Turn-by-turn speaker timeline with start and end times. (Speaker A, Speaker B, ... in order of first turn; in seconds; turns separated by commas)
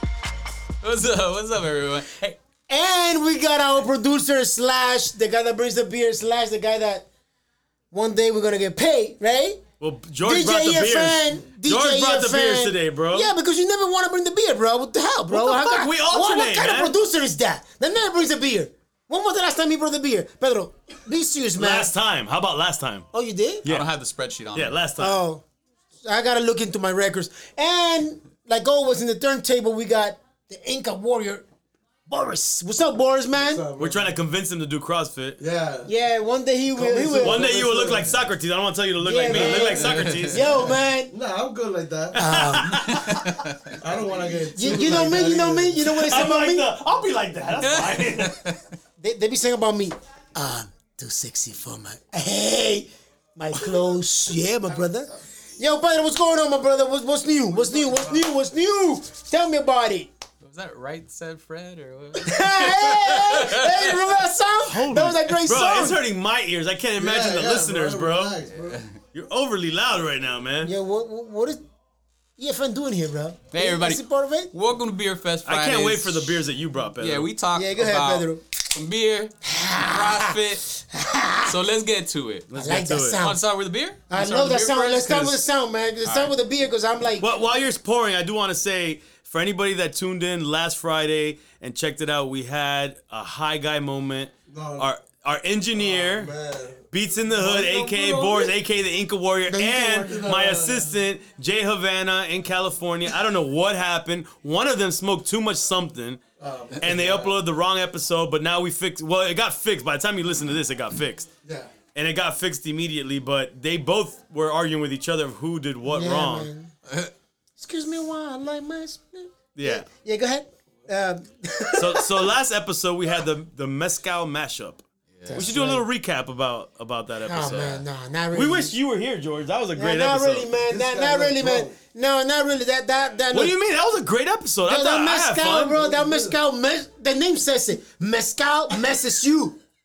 Speaker A: 0.8-2.4, Speaker B: 2.7-7.1, Speaker B: 7.9-9.6, Speaker C: 9.8-13.3, Speaker B: 10.2-21.9, Speaker C: 15.3-16.9, Speaker C: 21.5-23.1, Speaker B: 23.1-23.6, Speaker C: 23.6-23.9, Speaker A: 23.6-24.8, Speaker C: 24.5-25.2, Speaker B: 25.0-25.4, Speaker B: 26.0-31.4, Speaker B: 32.1-33.6, Speaker D: 33.3-34.1, Speaker C: 33.8-35.4, Speaker D: 35.4-35.9, Speaker B: 35.9-37.4, Speaker D: 36.7-38.2, Speaker C: 37.1-40.6, Speaker B: 39.0-41.1, Speaker D: 39.2-42.4, Speaker A: 39.8-40.3, Speaker C: 42.1-43.3, Speaker B: 42.1-43.2, Speaker A: 42.7-43.8, Speaker D: 43.8-45.9, Speaker B: 44.5-46.7, Speaker C: 45.8-48.4, Speaker A: 47.6-48.6, Speaker B: 49.0-60.1, Speaker D: 57.5-58.3, Speaker A: 60.4-64.0, Speaker B: 62.2-66.0, Speaker C: 64.7-68.4, Speaker D: 67.0-68.8, Speaker C: 69.1-70.7, Speaker B: 70.6-71.6, Speaker B: 72.4-74.5, Speaker A: 73.5-76.4, Speaker C: 75.4-77.3, Speaker A: 77.0-80.7, Speaker B: 77.5-78.4, Speaker B: 79.4-81.5, Speaker A: 81.4-82.5, Speaker C: 82.5-83.3, Speaker B: 82.5-83.4, Speaker A: 83.2-85.4, Speaker B: 84.1-87.3, Speaker A: 86.0-86.3, Speaker C: 87.2-96.3, Speaker D: 94.5-94.9, Speaker D: 95.8-98.5, Speaker C: 96.9-106.2, Speaker B: 99.5-100.2, Speaker D: 100.0-100.9, Speaker D: 106.4-107.4, Speaker C: 106.8-111.3, Speaker D: 111.4-111.7, Speaker C: 111.9-116.5, Speaker B: 115.9-116.7, Speaker B: 117.6-122.3, Speaker C: 119.5-119.8, Speaker C: 121.8-130.5, Speaker A: 125.2-125.4, Speaker B: 125.3-125.8, Speaker B: 127.2-128.7, Speaker A: 127.4-127.7, Speaker B: 129.8-133.5, Speaker D: 130.7-131.7, Speaker C: 133.3-135.7, Speaker B: 134.6-139.6, Speaker D: 135.6-136.4